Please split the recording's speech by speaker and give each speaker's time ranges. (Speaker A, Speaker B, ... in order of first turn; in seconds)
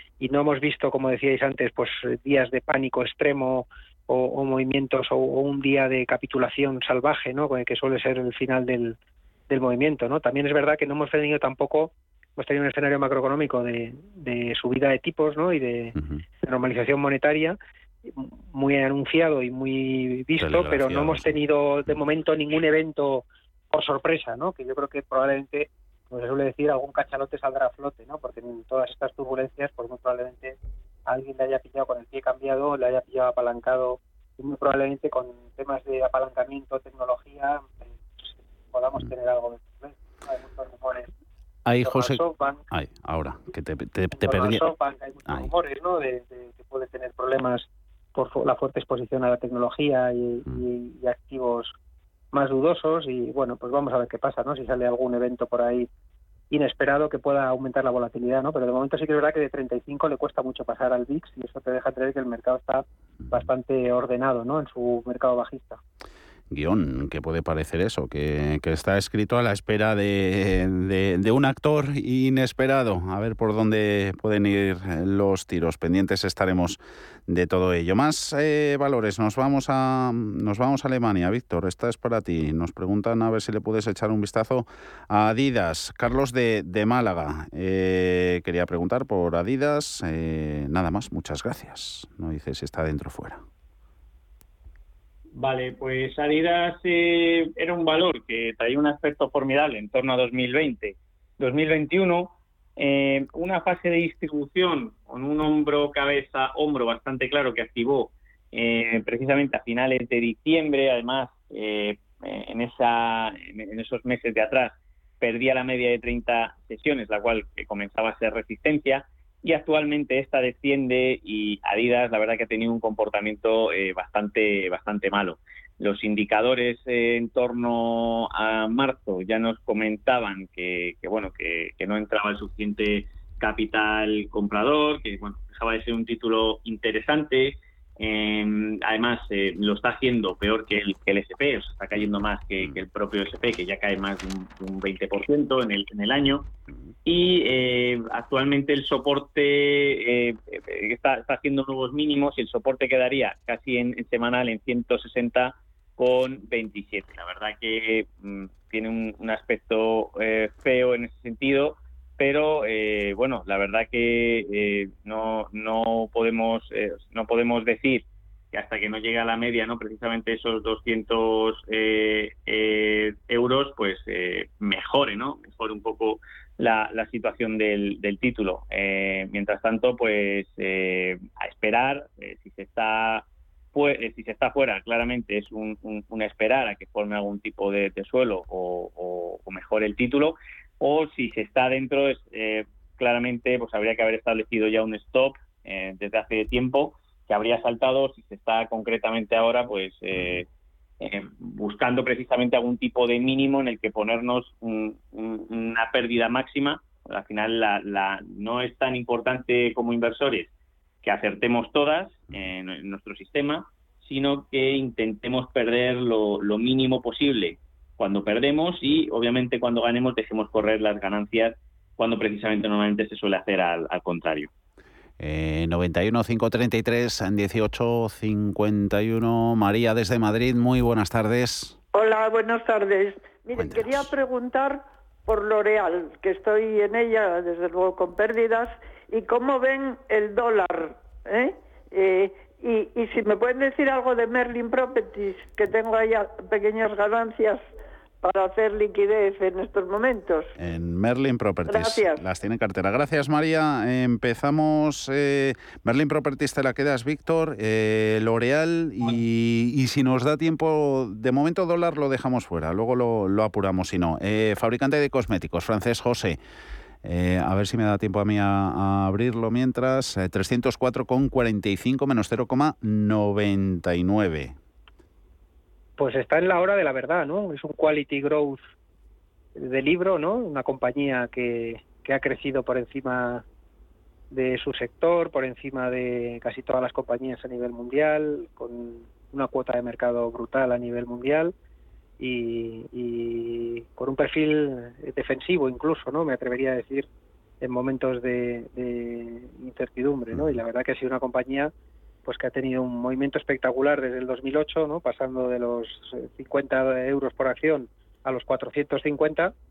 Speaker A: 0.2-9.0, 9.5-41.1, 41.8-42.6, 44.1-51.7, 52.3-55.9, 56.5-65.8, 276.0-278.6, 279.6-283.4, 284.3-291.5, 292.2-297.1, 297.6-301.7, 302.2-309.5
Speaker B: 20.4-21.4, 41.6-44.6, 66.5-93.4, 200.2-200.4, 225.2-231.8, 233.5-234.1, 250.6-266.4, 267.0-274.5, 300.3-300.6
Speaker C: 95.3-146.5, 147.1-200.5, 201.0-210.5, 211.0-224.5
Speaker D: 231.9-247.6, 248.2-250.5, 251.7-252.2